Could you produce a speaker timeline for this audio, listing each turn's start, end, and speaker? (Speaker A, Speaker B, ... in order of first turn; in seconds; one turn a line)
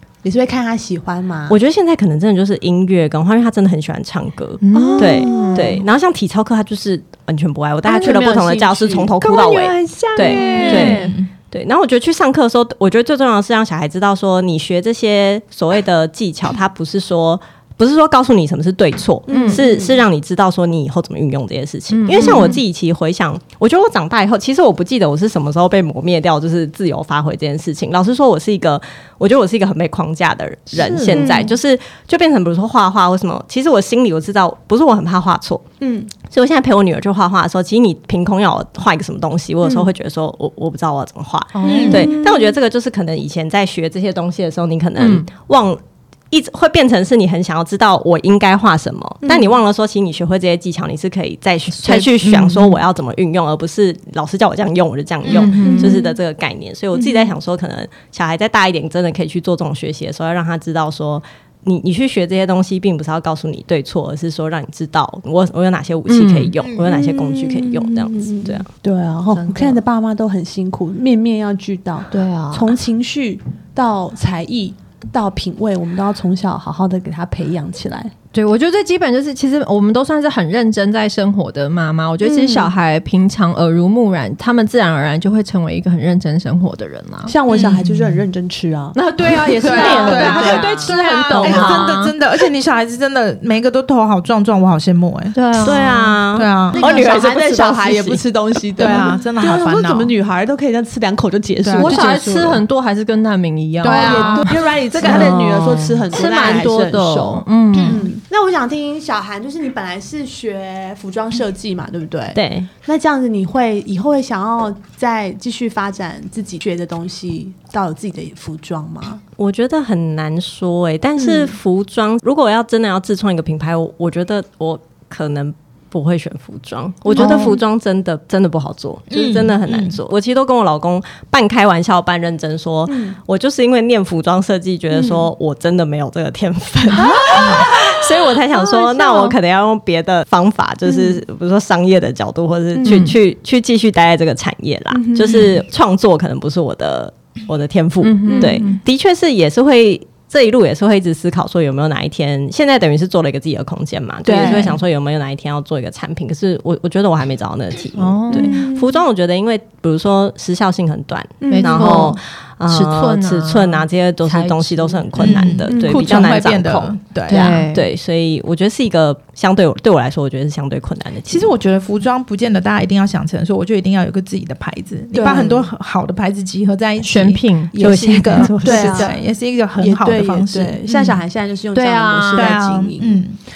Speaker A: 0.2-1.6
Speaker B: 1.5-35.6
Speaker C: 4.6-5.8
Speaker A: 4.7-5.8
Speaker A: 7.8-9.1
Speaker C: 7.9-8.3
Speaker C: 9.2-11.0
Speaker A: 10.2-11.2
Speaker D: 10.6-11.3
Speaker A: 19.3-20.0
Speaker C: 19.3-19.6
Speaker C: 21.9-22.6
Speaker A: 30.8-31.4
Speaker C: 30.8-31.5
Speaker A: 35.8-36.1
Speaker B: 36.3-45.8
Speaker A: 39.6-39.9
Speaker C: 41.5-42.1
Speaker A: 41.6-42.5
Speaker D: 41.7-42.1
Speaker C: 45.0-45.3
Speaker B: 46.3-68.7
Speaker C: 51.7-52.8
Speaker D: 55.2-55.5
Speaker C: 55.3-56.0
Speaker A: 55.6-56.1
Speaker A: 56.9-57.3
Speaker C: 66.1-66.5
Speaker D: 66.6-67.0
Speaker A: 66.8-78.1
Speaker C: 69.3-69.8
Speaker C: 72.1-72.7
Speaker C: 78.3-87.3
Speaker A: 82.2-82.7
Speaker A: 87.3-90.8
Speaker D: 87.5-88.1
Speaker C: 88.9-92.1
Speaker D: 89.6-95.3
Speaker B: 89.7-91.8
Speaker C: 95.3-96.0
Speaker B: 95.6-98.2
Speaker D: 96.3-96.8
Speaker A: 96.7-102.0
Speaker D: 98.8-100.1
Speaker D: 101.6-102.6
Speaker C: 101.8-108.0
Speaker D: 103.8-105.3
Speaker A: 103.8-119.2
Speaker B: 105.6-106.0
Speaker D: 107.8-108.0
Speaker B: 112.3-112.7
Speaker B: 119.4-171.5
Speaker A: 121.2-121.5
Speaker A: 127.2-127.5
Speaker C: 127.2-127.5
Speaker D: 129.1-130.0
Speaker A: 132.9-133.2
Speaker A: 137.0-137.6
Speaker C: 137.3-137.7
Speaker C: 138.5-139.4
Speaker A: 142.7-143.1
Speaker C: 142.8-143.1
Speaker A: 144.9-145.4
Speaker C: 148.0-148.8
Speaker A: 148.2-148.7
Speaker A: 154.2-154.8
Speaker C: 157.9-158.6
Speaker A: 158.3-158.8
Speaker A: 161.4-162.1
Speaker C: 161.5-165.4
Speaker D: 165.2-167.6
Speaker A: 165.7-166.2
Speaker C: 167.3-167.8
Speaker D: 171.3-181.2
Speaker A: 175.1-175.7
Speaker C: 177.0-178.7
Speaker B: 177.8-179.1
Speaker A: 178.6-179.3
Speaker A: 179.8-183.2
Speaker C: 181.7-182.6
Speaker D: 182.3-183.4